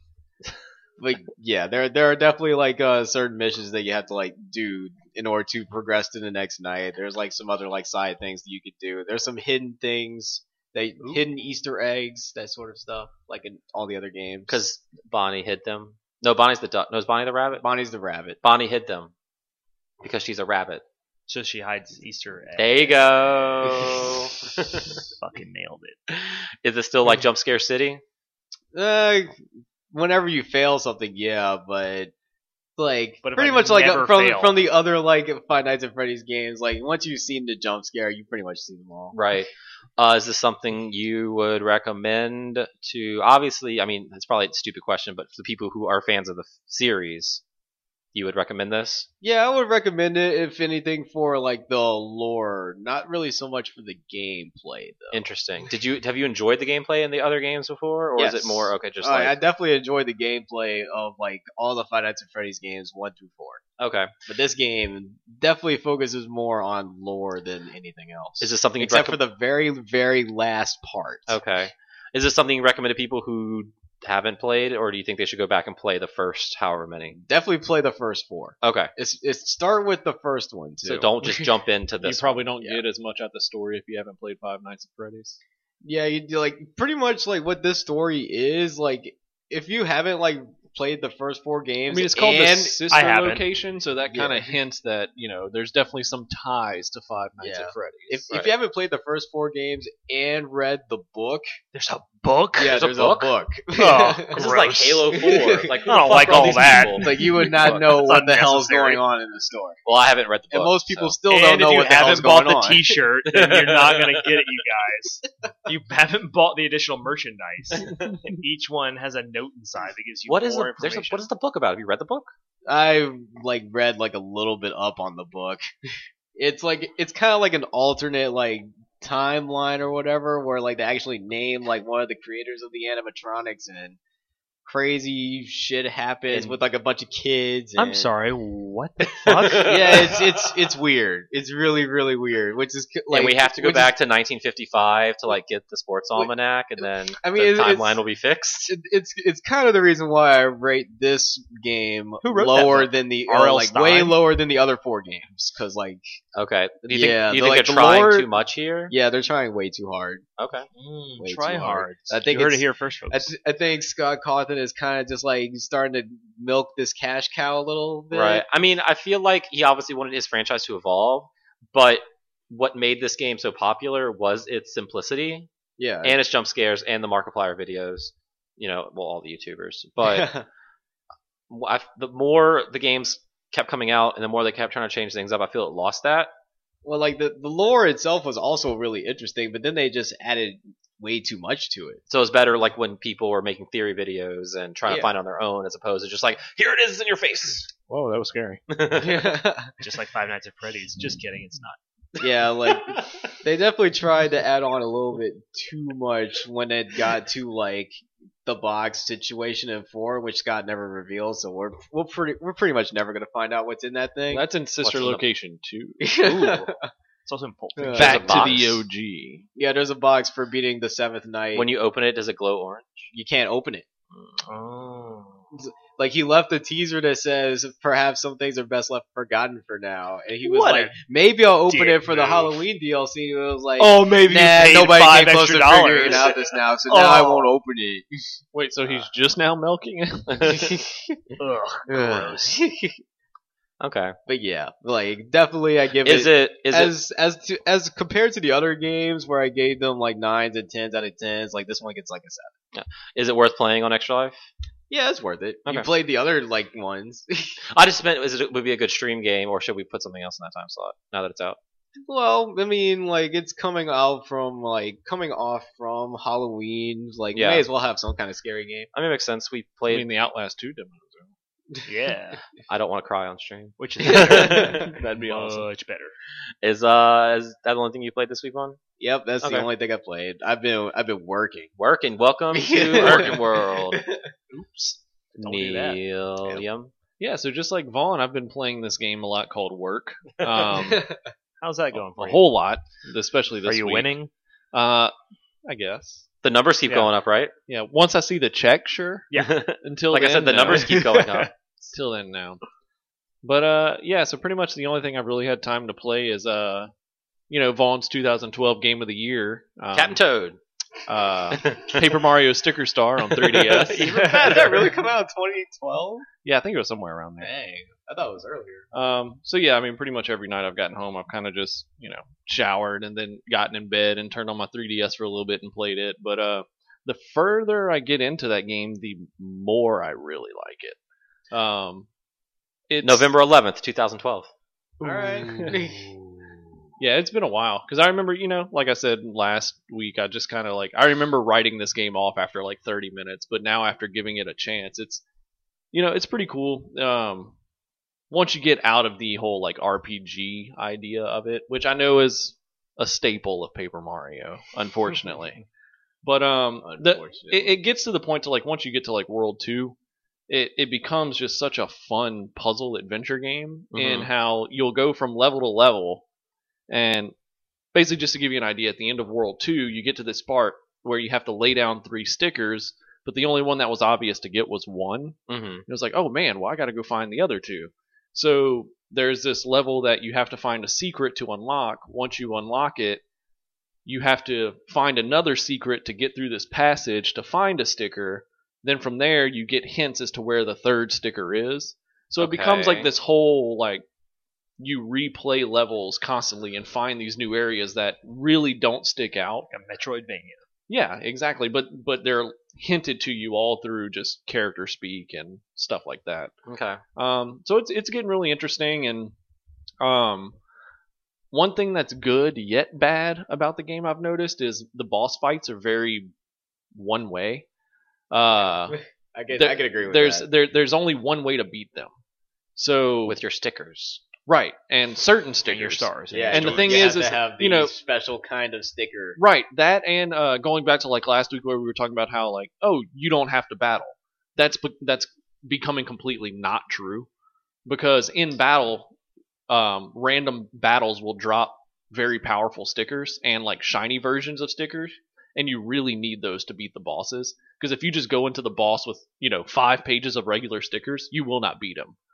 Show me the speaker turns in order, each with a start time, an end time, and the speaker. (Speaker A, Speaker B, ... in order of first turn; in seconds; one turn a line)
Speaker A: 1.0-14.6
Speaker B: 14.5-17.6
Speaker A: 17.6-18.4
Speaker B: 18.4-19.1
Speaker B: 20.0-20.8
Speaker C: 21.3-24.2
Speaker B: 22.6-25.0
Speaker C: 24.7-26.0
Speaker B: 26.1-28.0
Speaker A: 28.7-29.4
Speaker A: 29.9-32.1
Speaker A: 32.8-39.1
Speaker C: 33.2-34.6
Speaker B: 39.1-47.4
Speaker B: 48.1-49.1
Speaker A: 49.2-55.2
Speaker B: 55.1-59.4
Speaker A: 58.2-63.6
Speaker B: 63.8-64.1
Speaker A: 64.3-71.4
Speaker B: 68.4-69.2
Speaker B: 71.3-77.2
Speaker A: 77.2-81.5
Speaker B: 78.6-78.9
Speaker B: 80.8-82.5
Speaker D: 82.0-85.4
Speaker A: 85.8-92.8
Speaker D: 91.9-98.2
Speaker C: 92.9-93.4
Speaker A: 94.1-94.6
Speaker A: 97.4-101.6
Speaker C: 101.7-102.8
Speaker A: 102.6-104.5
Speaker B: 102.7-103.3
Speaker C: 103.7-109.0
Speaker B: 104.3-107.1
Speaker A: 105.1-109.8
Speaker B: 109.8-111.2
Speaker A: 110.5-113.0
Speaker C: 111.3-121.3
Speaker B: 113.3-114.3
Speaker B: 117.8-118.2
Speaker B: 120.3-122.3
Speaker A: 122.7-134.0
Speaker A: 134.7-138.1
Speaker B: 136.3-136.6
Speaker C: 137.8-140.1
Speaker B: 139.2-140.2
Speaker A: 139.5-143.9
Speaker B: 143.1-148.7
Speaker A: 146.2-148.0
Speaker A: 148.7-156.0
Speaker C: 152.2-154.2
Speaker B: 156.3-158.9
Speaker A: 156.8-158.3
Speaker A: 158.9-160.2
Speaker B: 160.4-160.7
Speaker C: 160.8-163.3
Speaker A: 161.2-168.4
Speaker B: 168.1-175.5
Speaker A: 175.8-176.2
Speaker B: 176.0-180.3
Speaker A: 180.0-180.4
Speaker B: 181.5-186.3
Speaker A: 186.8-192.0
Speaker B: 192.1-197.7
Speaker A: 194.9-195.1
Speaker D: 197.9-198.6
Speaker B: 198.7-199.3
Speaker A: 199.0-199.7
Speaker C: 199.8-201.8
Speaker A: 202.2-214.5
Speaker B: 202.9-203.3
Speaker D: 214.3-216.1
Speaker B: 214.8-215.2
Speaker A: 216.0-216.9
Speaker C: 216.2-216.7
Speaker C: 217.3-218.5
Speaker A: 217.8-218.5
Speaker D: 218.0-219.5
Speaker B: 218.0-218.8
Speaker A: 219.6-221.7
Speaker B: 221.5-223.1
Speaker A: 223.1-223.8
Speaker B: 224.1-224.4
Speaker C: 224.4-225.4
Speaker A: 225.5-238.4
Speaker C: 230.4-231.0
Speaker C: 231.7-232.6
Speaker C: 233.8-237.5
Speaker D: 238.5-240.5
Speaker B: 240.3-240.7
Speaker A: 240.4-241.2
Speaker C: 241.4-242.6
Speaker A: 241.9-242.9
Speaker B: 243.8-244.2
Speaker A: 244.3-252.5
Speaker B: 246.0-246.9
Speaker B: 252.7-254.5
Speaker A: 254.9-257.6
Speaker B: 257.7-261.6
Speaker A: 262.0-268.9
Speaker B: 267.3-267.6
Speaker B: 268.9-270.1
Speaker D: 269.9-271.3
Speaker C: 271.9-272.4
Speaker B: 272.7-274.9
Speaker C: 273.8-276.2
Speaker A: 274.0-274.8
Speaker D: 274.9-275.7
Speaker B: 276.6-278.8
Speaker A: 279.0-281.7
Speaker B: 279.4-279.7
Speaker B: 281.8-284.0
Speaker A: 282.5-284.3
Speaker D: 283.0-283.3
Speaker B: 285.4-286.9
Speaker C: 285.4-286.0
Speaker D: 287.2-291.1
Speaker A: 290.7-291.3
Speaker C: 291.6-292.5
Speaker D: 291.9-294.1
Speaker C: 293.6-294.3
Speaker D: 294.7-295.1
Speaker D: 295.7-296.3
Speaker B: 296.4-297.5
Speaker D: 297.7-301.0
Speaker C: 299.3-299.6
Speaker B: 299.3-301.5
Speaker A: 300.7-301.4
Speaker D: 301.9-302.6
Speaker D: 303.4-306.9
Speaker D: 307.5-310.2
Speaker B: 309.9-310.6
Speaker D: 311.1-314.1
Speaker B: 311.5-312.2
Speaker B: 313.4-314.6
Speaker A: 313.8-316.3
Speaker C: 314.2-314.8
Speaker D: 316.4-317.5
Speaker A: 317.4-318.9
Speaker D: 318.9-331.0
Speaker D: 331.5-332.1
Speaker D: 332.9-333.3
Speaker B: 333.0-334.5
Speaker A: 335.0-336.1
Speaker D: 335.0-335.8
Speaker C: 335.6-336.1
Speaker D: 337.0-345.2
Speaker D: 345.9-347.6
Speaker D: 348.3-355.6
Speaker D: 356.2-360.0
Speaker A: 356.8-357.8
Speaker D: 360.5-366.2
Speaker B: 363.9-364.3
Speaker D: 366.9-367.3
Speaker D: 367.9-383.2
Speaker B: 375.5-375.8
Speaker D: 384.1-394.1
Speaker B: 392.4-393.1
Speaker D: 394.8-399.7
Speaker C: 399.7-400.6
Speaker D: 400.9-406.5
Speaker B: 406.7-407.0
Speaker D: 407.2-409.3
Speaker D: 410.0-410.6
Speaker D: 411.5-416.3
Speaker D: 416.9-417.7
Speaker D: 418.3-419.0
Speaker A: 418.9-420.5
Speaker D: 419.5-422.1
Speaker D: 422.8-423.4
Speaker B: 423.3-424.2
Speaker D: 424.5-427.9
Speaker C: 425.7-427.2
Speaker A: 426.3-429.4
Speaker D: 429.4-437.3
Speaker D: 437.9-439.1
Speaker D: 439.7-452.2